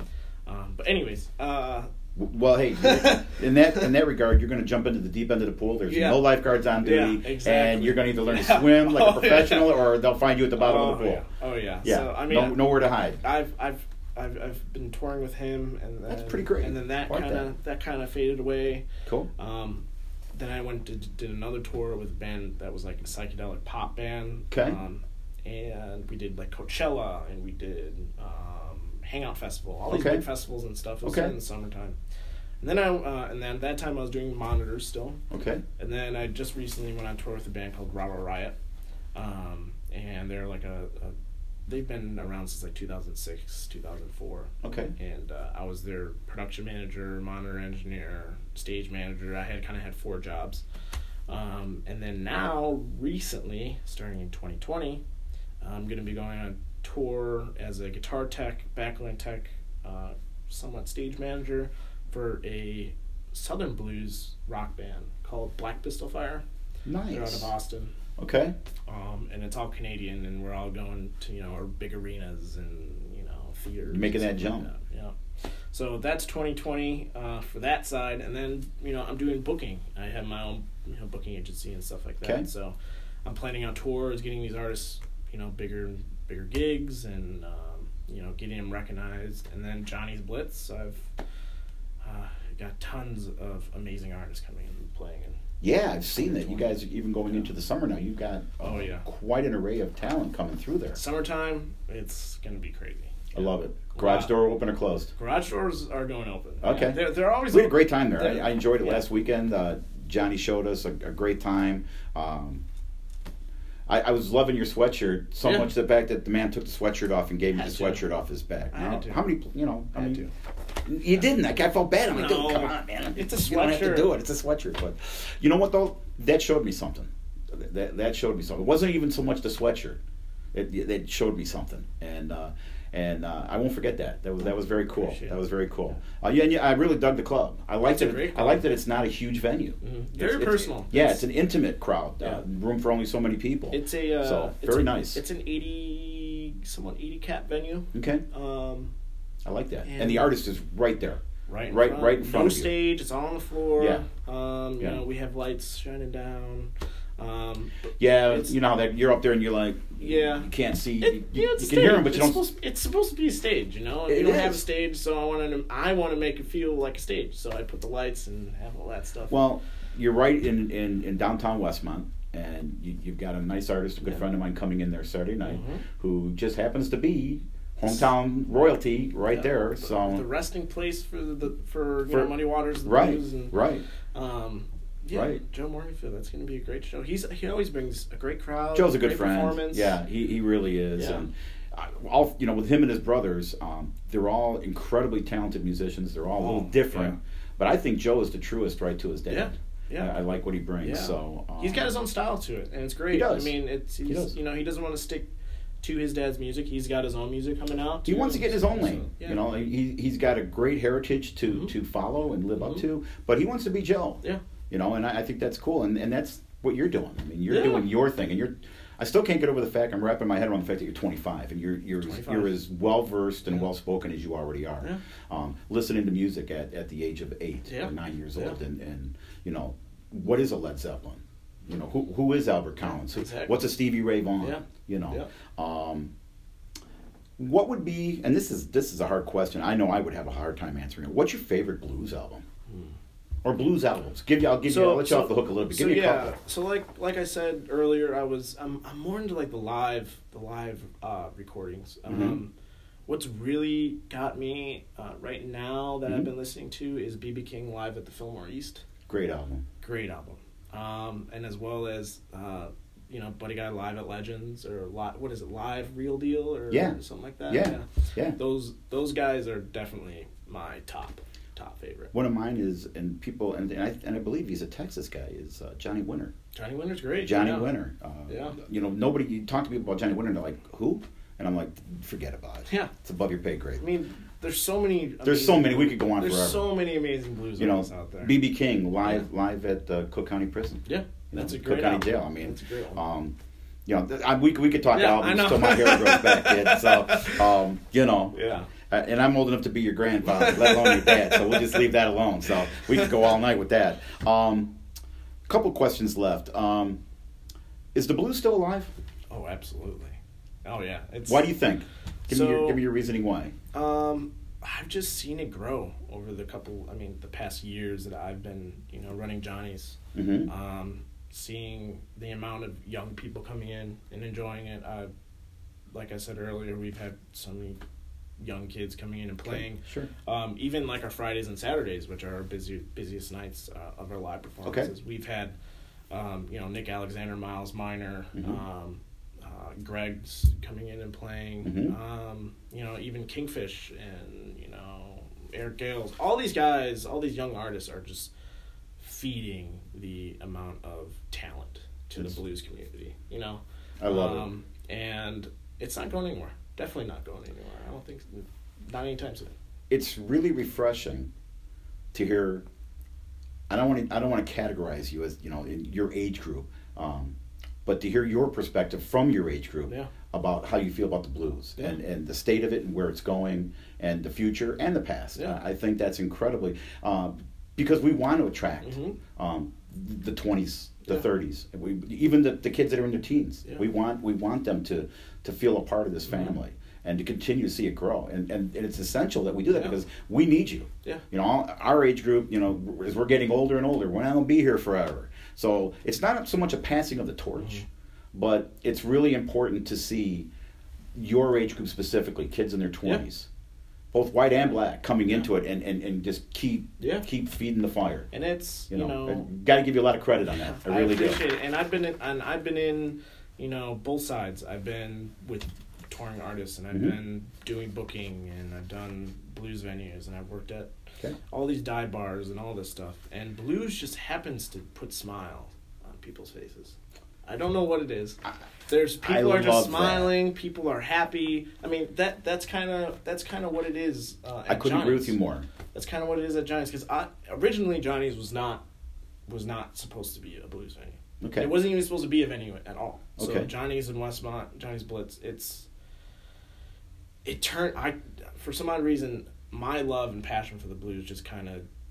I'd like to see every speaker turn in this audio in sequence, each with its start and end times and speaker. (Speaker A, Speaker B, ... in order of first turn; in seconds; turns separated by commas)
Speaker A: 0.5-1.9, Speaker B: 2.1-11.2, Speaker A: 2.8-3.9, Speaker A: 5.8-9.8, Speaker A: 10.6-12.7, Speaker B: 11.8-13.2, Speaker A: 13.2-18.9, Speaker B: 16.1-17.4, Speaker A: 19.4-31.9, Speaker B: 24.5-24.8, Speaker B: 29.9-30.2, Speaker B: 31.0-31.3, Speaker A: 32.6-35.2, Speaker B: 35.3-35.6, Speaker A: 35.8-38.5, Speaker A: 39.1-41.1, Speaker A: 41.7-50.6, Speaker B: 44.6-44.9, Speaker A: 51.3-55.0, Speaker A: 55.6-66.4, Speaker B: 66.8-67.5, Speaker A: 67.1-67.9, Speaker B: 68.2-68.5, Speaker A: 68.9-75.1, Speaker B: 73.9-74.7, Speaker A: 75.7-91.1, Speaker A: 92.0-95.4, Speaker B: 95.6-101.0, Speaker A: 96.2-97.5, Speaker A: 98.6-99.0, Speaker A: 100.9-104.3, Speaker B: 103.3-105.1, Speaker A: 105.1-109.0, Speaker B: 106.6-112.6, Speaker B: 113.9-120.2, Speaker A: 115.4-115.7, Speaker A: 117.5-118.0, Speaker A: 118.7-119.3, Speaker A: 119.9-120.3, Speaker B: 120.8-130.0, Speaker A: 122.1-124.1, Speaker B: 130.5-145.2, Speaker A: 134.9-135.4, Speaker A: 137.8-138.7, Speaker A: 139.8-141.2, Speaker A: 143.7-148.9, Speaker B: 147.9-148.2, Speaker B: 149.4-152.7, Speaker A: 149.8-150.3, Speaker A: 151.5-158.5, Speaker B: 153.8-154.0, Speaker B: 158.0-162.4, Speaker A: 160.0-160.5, Speaker A: 161.0-169.4, Speaker B: 164.1-164.6, Speaker B: 169.3-180.2, Speaker A: 175.4-175.8, Speaker A: 179.3-183.5, Speaker B: 182.1-183.8, Speaker A: 184.1-189.9, Speaker B: 185.1-185.4, Speaker B: 188.7-201.9, Speaker A: 190.9-191.2, Speaker A: 196.4-197.2, Speaker A: 199.3-200.2, Speaker A: 200.8-205.3, Speaker B: 203.1-204.3, Speaker A: 205.8-209.7, Speaker B: 208.0-236.1, Speaker A: 212.6-212.8, Speaker A: 217.5-217.9, Speaker A: 222.0-222.6, Speaker A: 227.7-228.6, Speaker A: 232.8-233.6, Speaker A: 234.4-235.3, Speaker B: 237.4-242.4, Speaker A: 242.7-242.9, Speaker B: 243.4-246.3, Speaker A: 244.7-252.5, Speaker B: 252.1-252.4, Speaker A: 253.1-258.8, Speaker B: 259.1-259.6, Speaker A: 259.8-272.1, Speaker B: 266.7-267.0, Speaker B: 267.5-268.4, Speaker B: 272.1-276.3, Speaker A: 276.5-277.7, Speaker B: 277.2-283.8, Speaker A: 278.3-278.6, Speaker A: 283.8-288.3, Speaker B: 285.2-286.7, Speaker B: 287.6-293.3, Speaker A: 290.9-293.0, Speaker B: 293.9-304.7, Speaker A: 294.9-297.5, Speaker A: 298.3-298.7, Speaker A: 300.2-301.9, Speaker B: 305.5-307.0, Speaker B: 307.9-308.9, Speaker A: 309.3-311.5, Speaker B: 311.2-313.5, Speaker A: 312.3-312.8, Speaker A: 313.7-325.1, Speaker B: 320.1-320.5, Speaker A: 325.9-327.8, Speaker A: 328.4-335.5, Speaker B: 329.4-330.1, Speaker B: 334.6-334.9, Speaker A: 336.1-348.3, Speaker B: 338.3-338.6, Speaker B: 341.6-341.9, Speaker A: 349.0-359.5, Speaker B: 354.0-354.5, Speaker B: 359.9-361.3, Speaker B: 362.1-362.6, Speaker B: 363.7-400.5, Speaker A: 378.8-379.2, Speaker A: 389.7-389.9, Speaker B: 401.1-403.5, Speaker B: 404.1-408.3, Speaker A: 407.0-407.2, Speaker A: 408.3-409.5, Speaker B: 408.9-411.4, Speaker A: 410.5-420.9, Speaker A: 421.5-435.4, Speaker B: 429.2-430.3, Speaker B: 434.7-435.6, Speaker A: 435.9-438.8, Speaker A: 439.5-445.9, Speaker B: 441.4-441.8, Speaker B: 443.4-443.7, Speaker A: 447.4-451.9